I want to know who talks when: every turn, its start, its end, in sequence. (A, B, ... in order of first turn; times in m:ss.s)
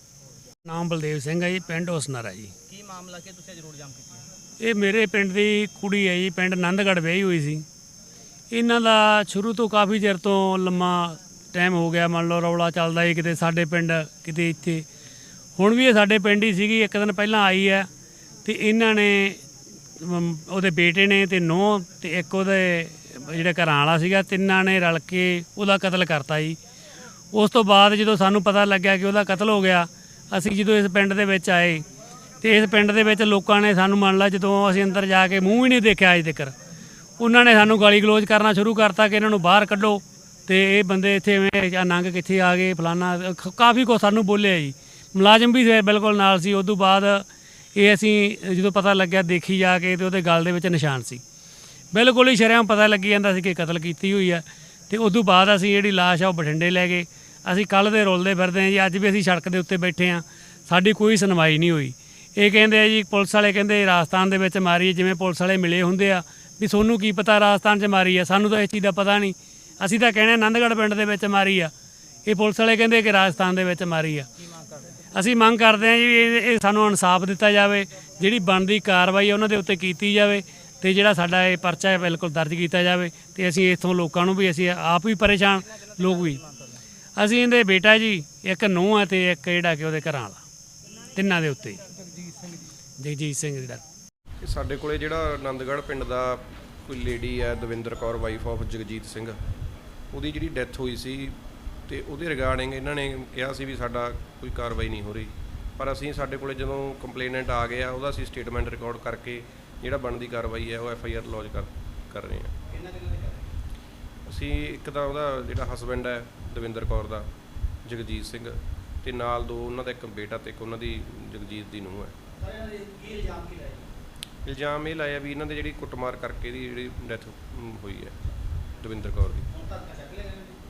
0:00.7-0:02.5 A
0:02.7-0:04.3 B
0:04.6-0:07.6 A
0:08.5-0:14.8 A
0:15.6-0:17.9 A
0:18.4-0:19.4 A
0:20.0-0:26.6 A
0:27.3-0:31.8 A
0:32.4-0:36.5 A
0:37.2-0:51.2 A
0:51.9-1:11.7 A
1:12.3-1:14.3 A
1:14.4-1:15.0 B
1:15.1-1:26.4 A
1:26.0-1:26.8 B
1:27.2-1:30.4 A
1:31.2-1:31.8 A
1:33.0-1:33.8 A
1:34.4-1:39.4 C
1:40.1-1:41.4 C
1:41.9-1:52.5 C
1:52.7-1:53.5 B
1:54.3-1:57.3 C
1:57.8-2:02.2 C
2:02.4-2:03.9 B
2:04.5-2:08.2 C
2:08.8-2:09.5 C
2:09.5-2:10.6 B